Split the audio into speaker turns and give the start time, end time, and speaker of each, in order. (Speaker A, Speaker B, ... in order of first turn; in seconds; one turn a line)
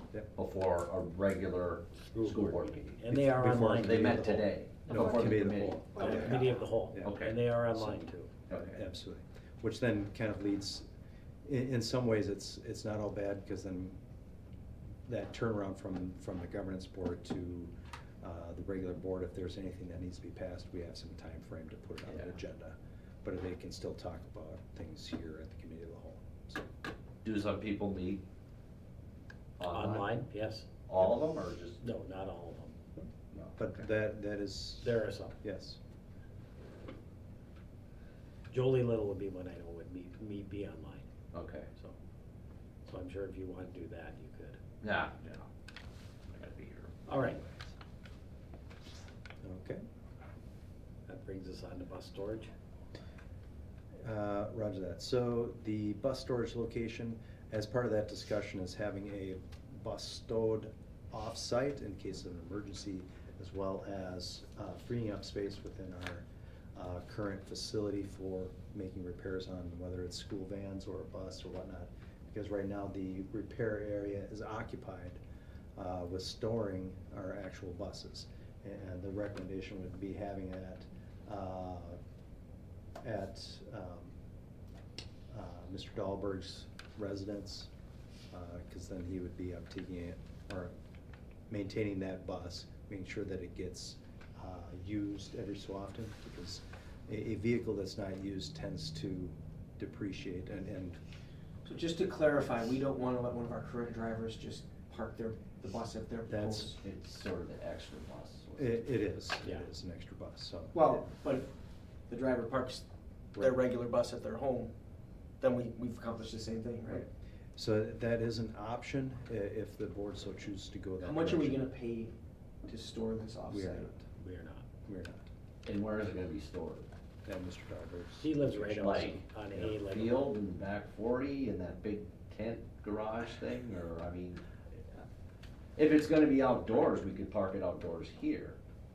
Speaker A: 0.3-3.0
Speaker B: 2.1-4.1
Speaker C: 3.1-6.4
Speaker A: 3.8-6.4
Speaker B: 6.0-8.3
Speaker C: 6.9-7.2
Speaker A: 7.0-7.4
Speaker C: 7.7-10.8
Speaker A: 8.5-8.8
Speaker C: 11.4-14.0
Speaker C: 15.1-26.7
Speaker A: 27.2-28.2
Speaker A: 29.6-30.2
Speaker B: 29.7-30.7
Speaker A: 30.9-31.8
Speaker B: 31.8-32.8
Speaker A: 33.3-33.8
Speaker C: 33.6-35.8
Speaker B: 34.8-35.4
Speaker B: 38.5-41.0
Speaker A: 41.3-41.7
Speaker B: 42.9-44.6
Speaker A: 44.8-45.5
Speaker A: 46.3-47.4
Speaker B: 47.1-47.4
Speaker C: 49.4-49.8
Speaker B: 51.1-52.5
Speaker C: 54.0-75.2
Speaker C: 75.8-82.0
Speaker C: 83.0-84.2
Speaker C: 85.3-87.7
Speaker C: 88.3-90.7
Speaker C: 91.5-101.0
Speaker D: 101.6-106.8
Speaker C: 106.3-106.7
Speaker A: 106.8-108.8
Speaker C: 108.6-111.0
Speaker D: 110.7-111.5
Speaker D: 112.1-114.7
Speaker C: 113.3-113.6
Speaker D: 115.4-117.1
Speaker C: 116.9-121.7
Speaker D: 121.0-122.1
Speaker D: 122.7-123.9
Speaker C: 123.5-124.0
Speaker B: 124.2-124.7
Speaker C: 124.8-125.3
Speaker A: 125.6-126.9
Speaker C: 127.2-128.7
Speaker B: 128.2-130.2
Speaker A: 128.7-134.4
Speaker A: 135.8-138.6